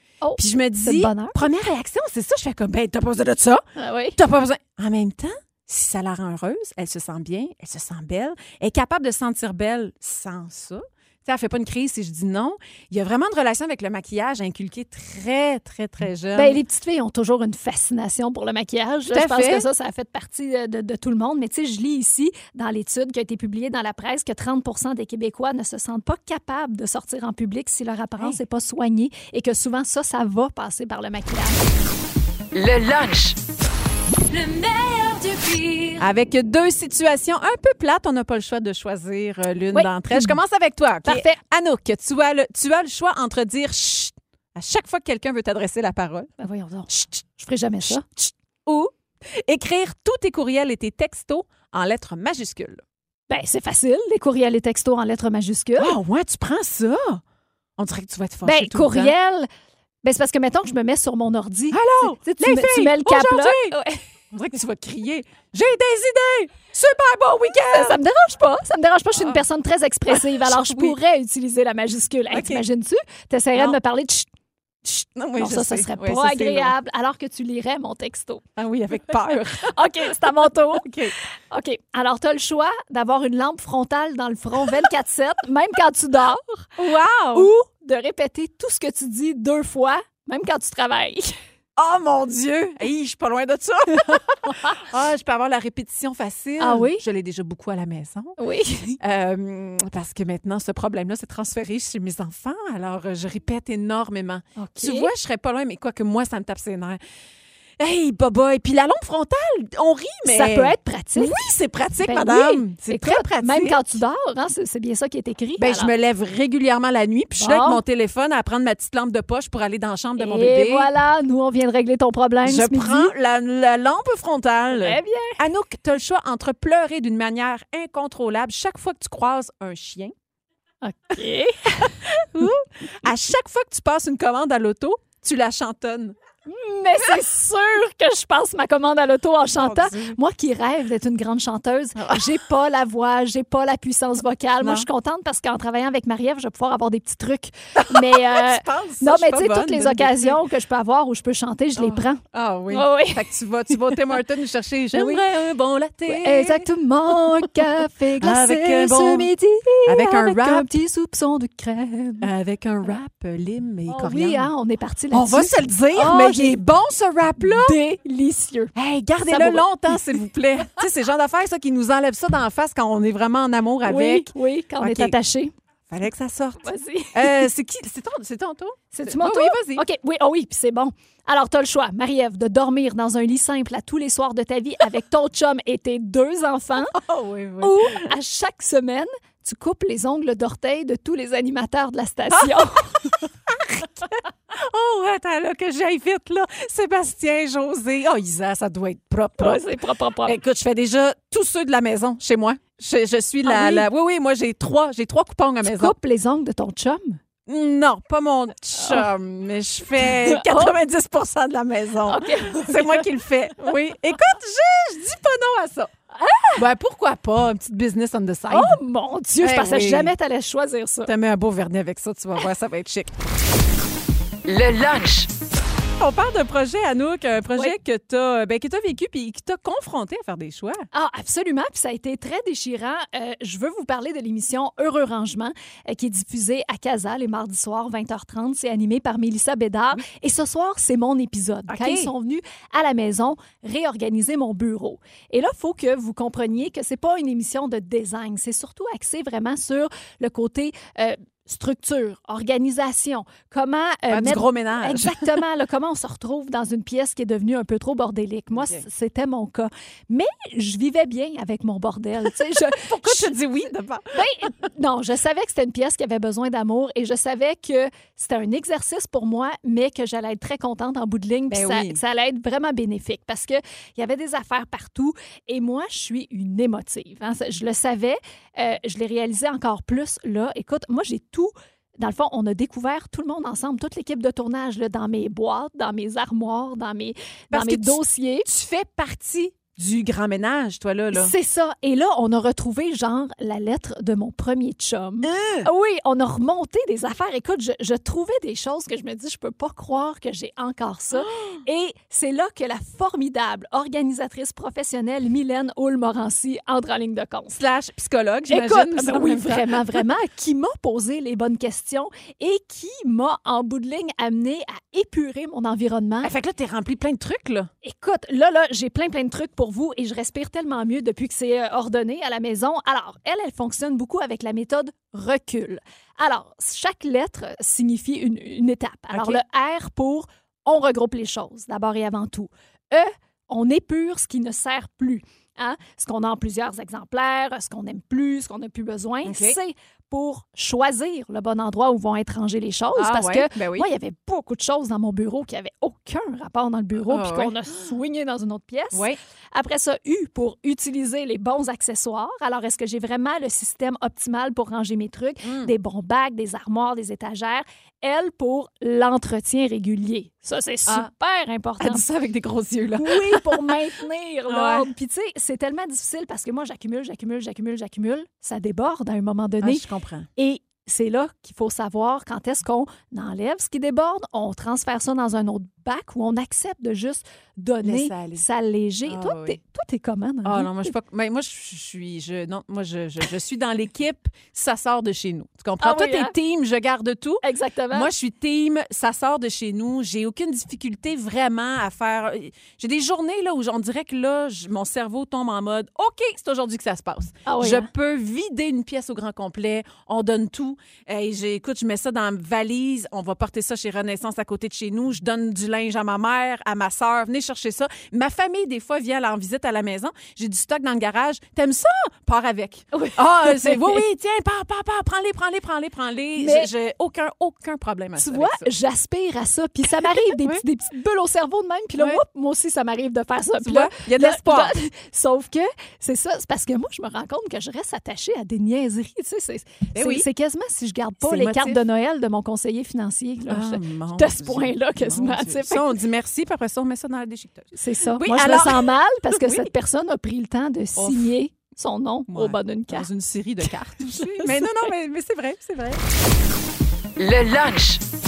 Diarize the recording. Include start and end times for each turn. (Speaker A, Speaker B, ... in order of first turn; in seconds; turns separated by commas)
Speaker A: 0.2-1.4, Speaker B: 0.4-3.6, Speaker A: 3.8-4.2, Speaker B: 4.2-16.6, Speaker A: 16.3-31.6, Speaker B: 19.1-19.7, Speaker C: 32.5-33.4, Speaker C: 34.3-36.0, Speaker B: 36.0-46.3, Speaker A: 39.7-40.4, Speaker A: 41.0-41.4, Speaker A: 46.4-48.0, Speaker B: 47.8-52.8, Speaker A: 53.3-55.9, Speaker B: 55.8-57.2, Speaker B: 57.8-59.1, Speaker A: 58.4-59.5, Speaker A: 60.0-64.0, Speaker B: 61.7-63.8, Speaker B: 64.3-68.0, Speaker A: 67.7-74.3, Speaker B: 69.1-69.4, Speaker B: 70.1-71.0, Speaker B: 72.3-72.6, Speaker B: 74.8-76.7, Speaker A: 75.4-78.4, Speaker B: 78.5-81.1, Speaker A: 79.6-80.9, Speaker A: 81.5-86.7, Speaker B: 86.8-87.5, Speaker A: 87.3-91.3, Speaker B: 91.8-98.4, Speaker A: 96.6-97.0, Speaker A: 98.4-99.0, Speaker B: 99.0-107.0, Speaker A: 104.5-105.1, Speaker B: 107.8-113.8, Speaker A: 110.2-111.3, Speaker A: 112.0-115.9, Speaker B: 115.6-120.9, Speaker A: 117.4-117.8, Speaker A: 120.2-123.1, Speaker B: 122.4-130.1, Speaker A: 124.7-125.4, Speaker A: 130.8-132.0, Speaker B: 132.0-136.1, Speaker A: 136.5-153.2, Speaker B: 139.5-140.2, Speaker B: 142.0-142.4, Speaker B: 144.6-144.9, Speaker B: 147.8-150.4, Speaker B: 151.8-157.6, Speaker A: 154.9-155.2, Speaker A: 156.1-162.3, Speaker B: 158.2-159.3, Speaker B: 159.8-160.7, Speaker B: 162.2-164.5, Speaker A: 163.9-166.6, Speaker B: 165.1-167.8, Speaker A: 167.4-170.2, Speaker B: 168.7-175.2, Speaker A: 173.8-175.5, Speaker B: 175.9-179.8, Speaker A: 176.6-177.5, Speaker A: 178.9-187.0, Speaker B: 186.9-188.1, Speaker A: 187.6-193.0, Speaker B: 192.3-205.9, Speaker A: 199.4-200.3, Speaker A: 203.4-203.9, Speaker A: 205.6-207.2, Speaker B: 207.4-215.9, Speaker A: 208.8-209.1, Speaker A: 210.0-210.7, Speaker A: 212.1-213.1, Speaker A: 216.1-216.6, Speaker B: 216.6-218.8, Speaker A: 218.5-221.1, Speaker B: 219.4-220.1, Speaker B: 221.0-223.1, Speaker C: 224.4-225.3, Speaker B: 226.0-230.9, Speaker A: 230.9-263.3, Speaker B: 241.7-242.1, Speaker B: 254.1-255.3, Speaker B: 258.5-258.9, Speaker B: 262.7-264.5, Speaker A: 264.1-288.5, Speaker B: 271.5-272.0, Speaker B: 287.5-291.3, Speaker A: 291.1-307.6, Speaker B: 295.2-295.7, Speaker B: 301.1-301.6, Speaker B: 307.5-310.1, Speaker A: 308.5-316.3, Speaker B: 316.2-317.7, Speaker A: 317.8-362.0, Speaker B: 329.1-329.4, Speaker B: 339.2-339.6, Speaker B: 342.9-343.9, Speaker B: 346.9-347.6, Speaker B: 355.4-355.7, Speaker B: 361.8-363.8, Speaker A: 362.9-369.8, Speaker B: 364.5-364.9, Speaker B: 369.6-370.3, Speaker A: 370.4-380.9, Speaker B: 377.8-378.4, Speaker B: 379.0-379.6, Speaker B: 380.4-418.7, Speaker A: 385.8-386.3, Speaker A: 387.4-388.1, Speaker A: 397.4-397.9, Speaker A: 412.9-414.0, Speaker A: 416.4-416.7, Speaker A: 418.2-435.9, Speaker B: 420.0-420.6, Speaker B: 422.0-422.2, Speaker B: 423.6-424.7, Speaker B: 429.9-430.2, Speaker B: 431.2-431.8, Speaker B: 433.5-439.7, Speaker A: 437.7-443.1, Speaker B: 440.9-441.3, Speaker B: 442.3-446.0, Speaker A: 444.1-444.6, Speaker C: 447.2-448.0